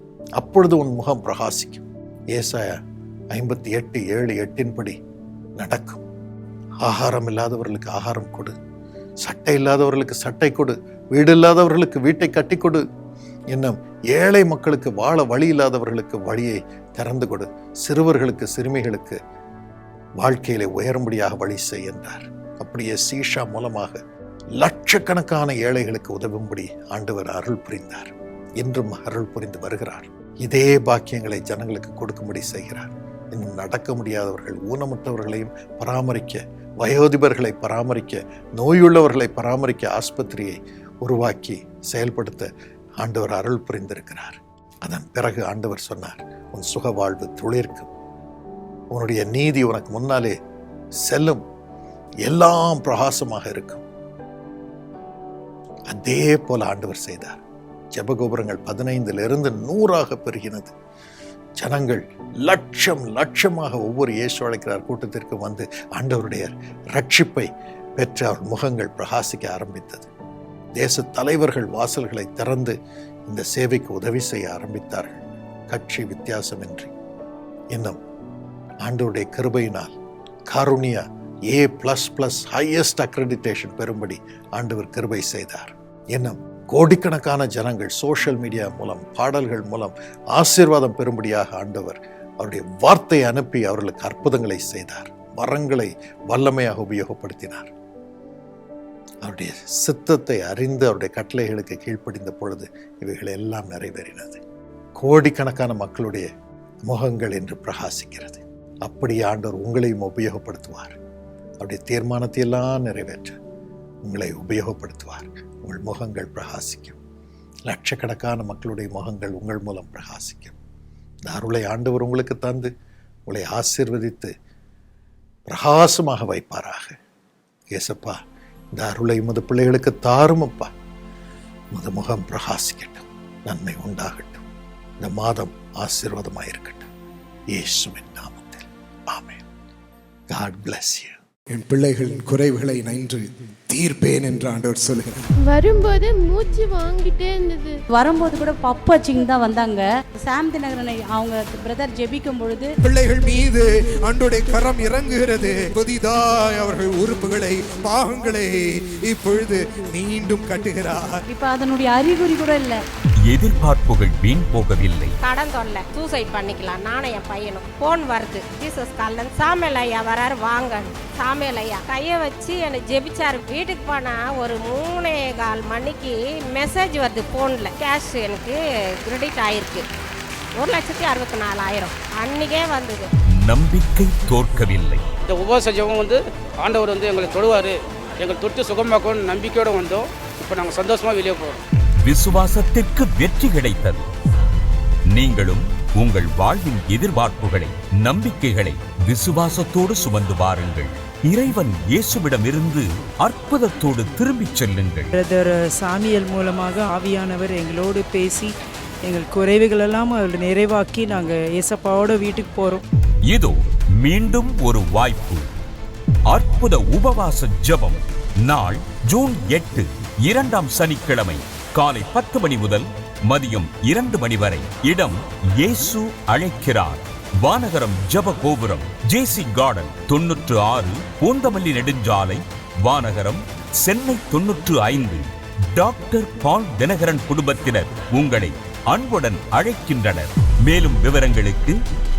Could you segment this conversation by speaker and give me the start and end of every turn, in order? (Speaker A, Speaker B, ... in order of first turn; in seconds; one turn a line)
Speaker A: 0.4-2.8
Speaker A: 3.3-5.0
Speaker A: 5.6-6.0
Speaker A: 6.8-8.5
Speaker A: 9.2-12.8
Speaker A: 13.5-19.2
Speaker A: 20.2-24.0
Speaker A: 24.6-47.9
Speaker A: 48.9-50.4
Speaker A: 51.0-51.4
Speaker A: 52.2-53.8
Speaker A: 55.9-57.4
Speaker A: 57.9-60.7
Speaker A: 61.6-70.1
Speaker A: 70.8-72.8
Speaker A: 73.3-76.9
Speaker A: 78.8-79.9
Speaker A: 80.5-97.7
Speaker A: 99.2-104.4
Speaker A: 105.0-106.3
Speaker A: 106.8-111.0
Speaker A: 111.6-113.4
Speaker A: 114.1-117.0
Speaker A: 117.7-120.5
Speaker A: 121.3-122.7
Speaker A: 123.3-124.3
Speaker A: 125.5-127.0
Speaker A: 127.7-128.2
Speaker A: 128.8-130.7
Speaker A: 131.7-134.4
Speaker A: 135.0-136.9
Speaker A: 137.5-139.4
Speaker A: 140.3-141.2
Speaker B: 141.5-145.3
Speaker C: 145.4-147.7
Speaker D: 147.9-152.7
Speaker B: 152.8-161.2
Speaker D: 161.3-162.8
Speaker E: 163.3-165.2
Speaker F: 165.2-179.8
Speaker F: 180.6-183.1
Speaker E: 183.4-185.0
Speaker G: 185.3-191.6
Speaker E: 192.0-194.1
Speaker E: 195.1-205.1
Speaker H: 205.1-208.5
Speaker H: 209.0-212.8
Speaker E: 213.3-215.4
Speaker E: 216.3-241.8